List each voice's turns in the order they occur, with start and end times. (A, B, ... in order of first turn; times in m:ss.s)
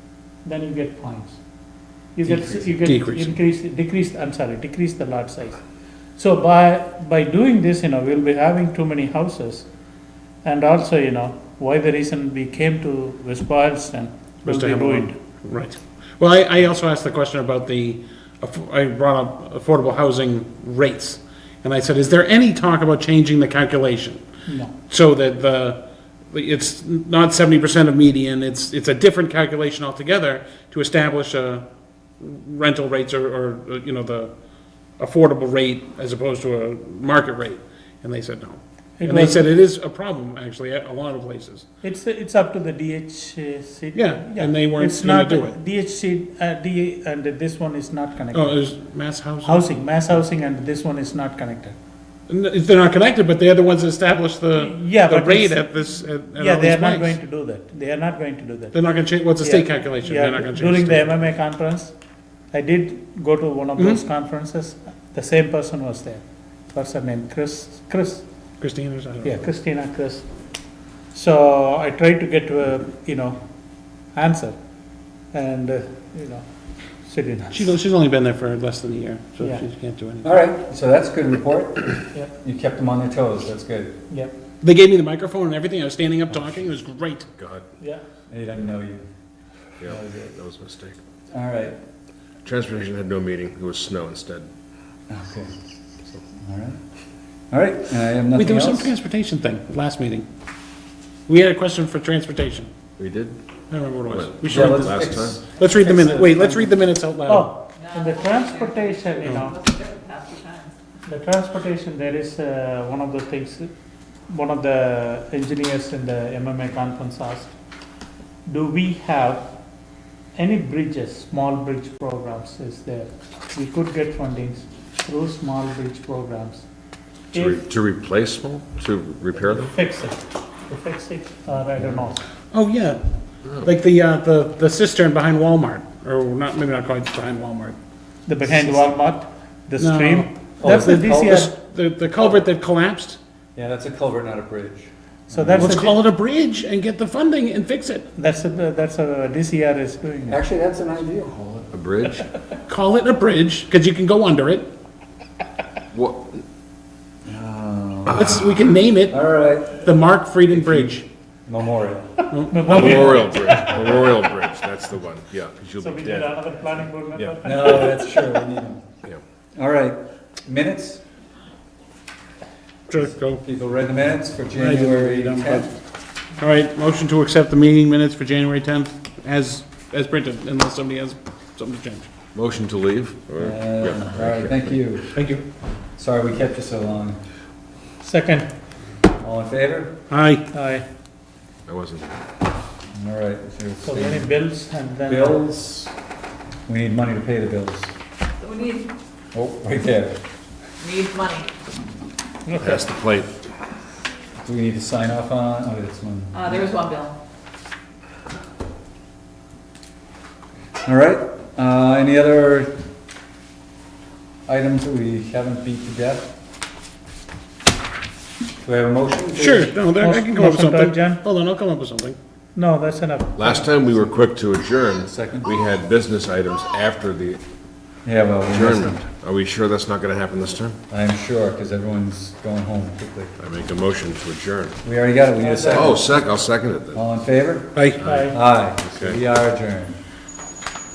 0:00.4-0:01.4 A
0:02.1-0:05.6 A
0:02.2-0:03.4 B
0:06.2-0:09.7 A
0:10.4-0:15.1 A
0:14.4-0:24.2 B
0:24.4-0:24.7 A
0:24.8-0:31.6 B
0:32.2-0:34.3 B
0:35.0-0:41.6 B
0:39.0-0:39.4 A
0:41.8-0:48.7 A
0:43.9-0:45.6 B
0:48.3-0:49.6 B
0:49.4-0:51.8 A
0:52.3-0:57.2 B
0:54.5-0:55.7 A
0:56.3-0:58.8 A
0:58.7-1:01.1 B
0:59.4-1:01.9 A
1:02.5-1:08.2 A
1:03.8-1:04.0 B
1:08.6-1:09.4 B
1:09.2-1:10.3 A
1:11.1-1:13.4 A
1:14.1-1:14.6 A
1:15.3-1:16.4 A
1:17.0-1:17.7 A
1:17.5-1:20.4 B
1:20.2-1:24.0 C
1:24.1-1:24.4 A
1:24.6-1:27.3 B
1:27.4-1:27.6 D
1:28.3-1:29.0 C
1:29.8-1:31.0 D
1:29.8-1:30.3 C
1:31.3-1:31.8 C
1:32.4-1:34.5 D
1:35.1-1:35.5 C
1:36.3-1:36.8 C
1:37.5-1:38.9 C
1:38.3-1:40.3 B
1:41.3-1:42.7 B
1:43.0-1:43.4 D
1:43.7-1:47.5 B
1:44.1-1:45.4 D
1:44.4-1:46.7 C
1:47.2-1:49.6 A
1:47.8-1:50.7 E
1:51.0-1:53.7 A
1:54.3-1:57.5 A
1:58.4-1:59.5 A
2:00.4-2:06.6 A
2:07.3-2:07.6 A
2:07.3-2:09.7 D
2:09.4-2:12.2 A
2:12.5-2:17.8 B
2:18.2-2:21.5 A
2:18.4-2:18.8 B
2:19.8-2:23.2 B
2:20.6-2:21.4 C
2:23.6-2:25.8 C
2:25.3-2:26.0 A
2:25.6-2:28.0 B
2:28.1-2:30.4 A
2:30.3-2:31.4 C
2:31.4-2:32.3 D
2:32.7-2:34.7 B
2:35.9-2:36.4 D
2:37.2-2:38.5 C
2:38.1-2:38.4 D
2:38.2-2:41.0 B
2:39.1-2:39.9 C
2:40.5-2:42.2 C
2:42.3-2:43.3 B
2:42.5-2:43.7 A
2:42.6-2:46.5 D
2:45.8-2:48.2 A
2:47.4-2:49.0 C
2:49.5-2:51.0 C
2:52.9-2:53.4 B
2:53.3-2:55.7 C
2:54.5-2:55.7 B
2:56.4-3:02.0 B
3:02.3-3:04.7 D
3:03.4-3:05.1 C
3:05.1-3:05.4 B
3:06.0-3:07.2 C
3:08.0-3:08.5 A
3:09.2-3:09.9 C
3:10.1-3:10.4 B
3:10.5-3:10.8 A
3:11.7-3:12.2 D
3:12.9-3:14.3 C
3:13.8-3:15.4 A
3:15.1-3:15.9 C
3:16.7-3:17.9 C
3:18.4-3:18.9 E
3:19.3-3:20.2 C
3:20.8-3:21.5 E
3:22.5-3:22.8 A
3:22.5-3:23.3 D
3:24.4-3:26.6 C
3:26.3-3:27.2 E
3:30.8-3:32.7 C
3:34.5-3:36.3 C
3:38.6-3:39.8 C
3:39.3-3:42.2 B
3:40.0-3:41.2 A
3:42.5-3:43.7 A
3:43.4-3:47.4 D
3:45.0-3:45.5 C
3:48.0-3:49.0 C
3:48.5-3:50.8 D
3:50.9-3:53.4 C
3:53.4-3:54.8 D
3:54.8-3:56.2 C
3:55.4-3:56.0 A
3:55.7-3:57.0 D
3:56.9-4:00.0 C
3:57.7-3:58.0 B
3:58.0-3:59.2 D
3:58.0-3:58.4 A